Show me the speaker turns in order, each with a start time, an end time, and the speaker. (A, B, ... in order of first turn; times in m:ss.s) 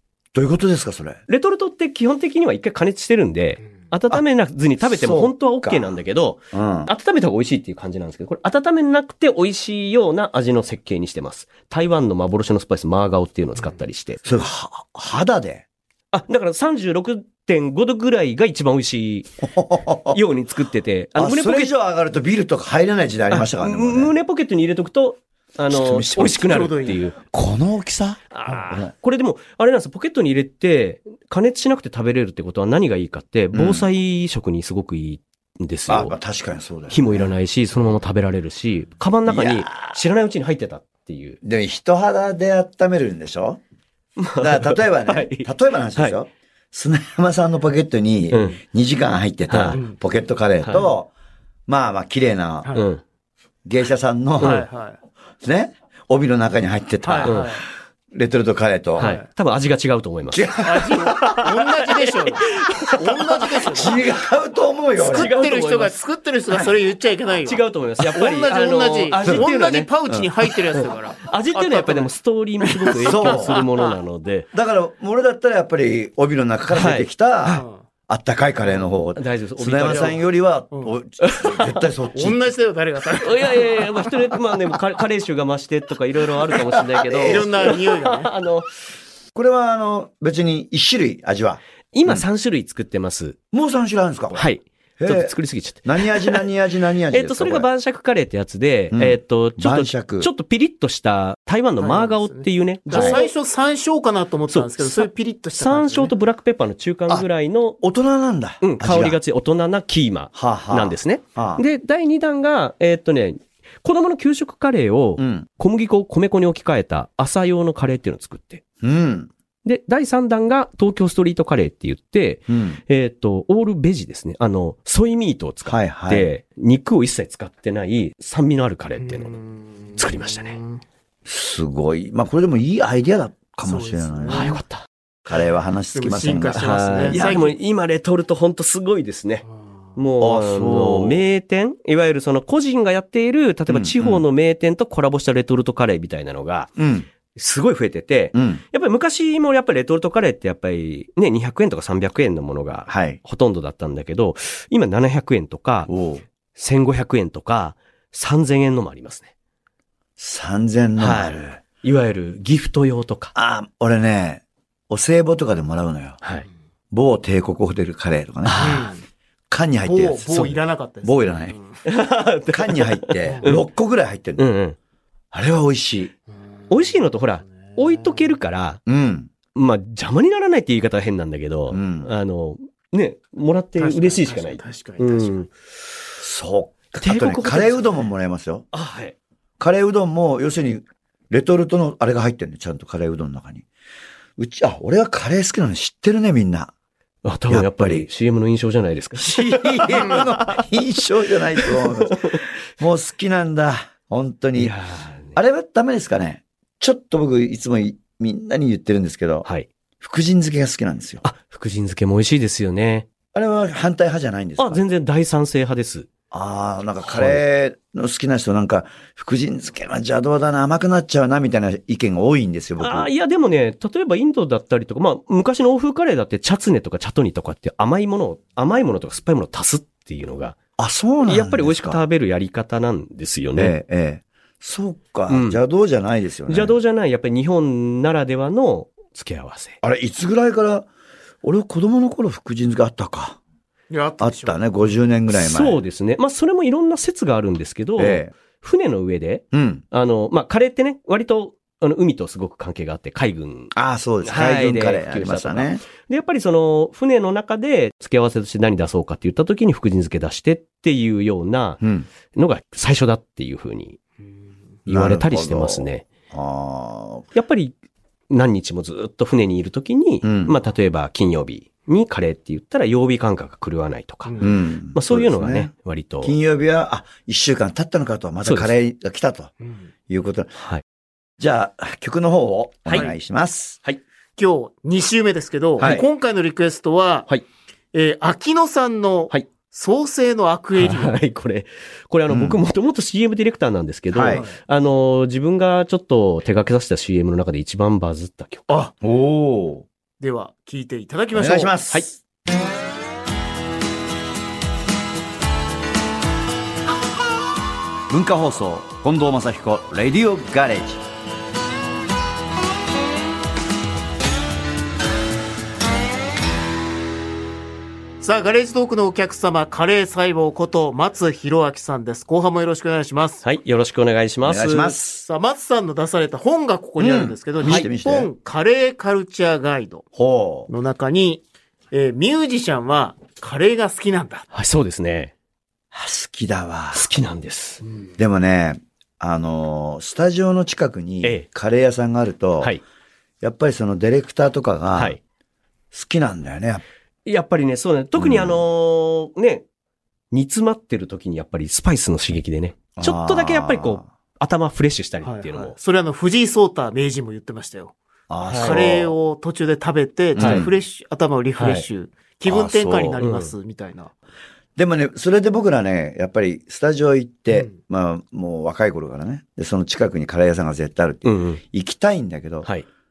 0:00.3-0:01.2 A
0:01.3-0:14.4 B
0:04.8-0:06.0 A
0:06.5-0:06.9 A
0:14.2-0:15.6 A
0:16.1-0:19.4 B
0:19.4-0:20.2 A
0:20.1-0:21.7 B
0:21.2-0:24.1 A
0:23.3-0:27.2 B
0:25.7-0:26.5 A
0:26.3-0:27.1 C
0:27.2-0:28.9 A
0:28.3-0:36.1 B
0:33.5-0:33.8 A
0:35.9-0:37.3 A
0:36.9-0:41.4 B
0:39.2-0:40.0 A
0:41.4-0:43.6 A
0:44.2-0:46.2 B
0:44.4-0:51.1 A
0:48.3-0:48.6 B
0:49.5-0:49.8 B
0:49.7-0:50.0 C
0:50.6-0:50.9 B
0:51.7-0:52.7 A
0:52.7-0:53.0 B
0:53.6-0:54.6 A
0:54.4-0:54.6 B
0:54.4-0:55.0 C
0:55.4-0:57.6 A
0:57.0-0:57.6 C
0:58.1-0:59.1 A
0:59.0-0:59.2 C
0:59.0-1:03.9 B
1:00.3-1:01.3 A
1:00.6-1:04.0 C
1:03.7-1:05.3 A
1:05.0-1:13.9 C
1:05.0-1:06.0 B
1:07.4-1:09.9 B
1:10.7-1:14.5 B
1:13.0-1:13.6 A
1:14.5-1:22.4 A
1:16.7-1:17.1 B
1:17.4-1:17.8 C
1:19.1-1:20.2 B
1:20.7-1:21.0 C
1:21.2-1:21.8 B
1:22.1-1:24.1 C
1:23.2-1:28.7 B
1:26.4-1:27.7 A
1:27.2-1:28.3 C
1:29.3-1:32.2 A
1:31.9-1:33.4 B
1:33.5-1:34.5 A
1:34.3-1:36.5 B
1:35.0-1:35.3 A
1:35.8-1:37.7 A
1:37.1-1:43.3 B
1:38.9-1:40.3 A
1:41.8-1:46.1 C
1:42.9-1:43.2 A
1:44.5-1:47.8 B
1:47.8-1:49.2 A
1:48.6-1:58.6 B
1:50.3-1:51.6 A
1:55.2-1:55.5 A
1:58.8-1:59.3 A
1:59.6-2:09.4 B
2:02.5-2:02.8 A
2:05.6-2:06.3 A
2:09.0-2:10.8 C
2:10.0-2:10.6 B
2:11.2-2:14.6 A
2:13.6-2:14.6 C
2:14.3-2:14.8 B
2:15.3-2:17.4 A
2:15.9-2:17.5 C
2:16.5-2:26.7 B
2:20.2-2:21.2 A
2:23.7-2:24.2 A
2:26.8-2:27.1 A
2:27.3-2:35.9 B
2:28.3-2:28.6 A
2:32.9-2:33.2 A
2:35.9-2:36.2 A
2:36.6-2:39.3 B
2:40.2-2:41.6 A
2:41.0-2:43.3 B
2:43.3-2:46.2 A
2:46.2-2:46.5 B
2:46.9-2:48.8 A
2:48.4-2:48.9 B
2:48.6-2:49.0 C
2:49.5-2:50.5 A
2:49.8-2:51.8 C
2:51.0-2:51.5 A
2:51.8-2:53.6 B
2:52.5-2:54.5 A
2:54.4-2:54.8 B
2:55.3-2:56.1 A
2:56.7-2:58.8 B
2:58.9-2:59.3 A
2:59.5-3:05.5 B
3:01.7-3:02.1 A
3:03.8-3:05.4 C
3:06.2-3:08.6 A
3:07.0-3:08.0 B
3:08.7-3:09.1 B
3:09.6-3:13.6 A
3:14.4-3:16.7 A
3:17.2-3:20.6 B
3:17.5-3:18.1 A
3:19.2-3:24.7 A
3:21.6-3:22.4 B
3:24.6-3:25.4 B
3:25.3-3:29.4 A
3:30.0-3:31.2 A
3:31.2-3:33.0 B
3:33.3-3:34.8 A
3:34.6-3:36.1 B
3:36.3-3:43.1 A
3:37.0-3:37.4 B
3:42.8-3:50.6 B
3:50.8-3:52.0 A
3:51.2-3:53.7 B
3:53.6-3:56.8 A
3:55.3-3:55.6 B
3:56.5-3:59.8 B
3:59.8-4:00.9 A
4:01.4-4:03.4 A
4:03.9-4:04.6 C
4:04.2-4:05.8 A
4:05.3-4:13.7 B
4:08.0-4:08.3 A
4:09.5-4:09.8 A
4:13.7-4:15.8 A
4:14.2-4:21.8 B
4:21.8-4:22.1 A
4:22.3-4:24.0 B
4:24.9-4:26.0 B
4:24.9-4:27.3 A
4:27.3-4:27.7 B
4:28.3-4:36.3 B
4:30.2-4:30.6 A
4:34.2-4:34.6 C
4:34.4-4:35.7 A
4:36.2-4:39.5 A
4:38.4-4:38.7 B
4:39.6-4:39.9 C
4:40.1-4:40.6 A
4:41.4-4:43.8 A
4:44.4-4:47.3 C
4:45.8-4:46.0 A
4:47.9-4:51.2 C
4:50.8-4:58.6 B
4:52.3-4:52.6 A
4:54.1-4:54.4 A
4:54.3-4:54.6 C
4:59.0-4:59.8 A
5:00.2-5:01.8 C
5:01.3-5:02.1 A
5:08.1-5:11.0 A
5:18.2-5:23.4 C
5:23.4-5:25.0 B
5:24.4-5:25.2 A
5:25.2-5:30.0 C
5:27.0-5:28.3 A
5:30.2-5:30.7 A
5:30.7-5:34.5 C
5:34.5-5:35.3 B
5:35.9-5:37.1 A
5:36.9-5:37.8 B
5:38.2-5:42.8 A
5:43.4-5:45.2 A
5:45.9-5:46.8 A
5:47.2-5:49.6 B
5:48.2-5:48.6 A
5:50.3-5:55.8 B
5:53.0-5:54.0 A
5:55.2-5:57.9 C
5:58.3-5:59.1 A
5:58.5-5:58.8 B
5:58.5-6:04.1 C
6:00.4-6:00.7 A
6:00.4-6:00.7 B
6:01.6-6:01.8 B
6:02.4-6:03.2 A
6:03.2-6:03.5 B
6:04.8-6:12.7 A
6:07.5-6:07.8 C
6:11.2-6:11.6 B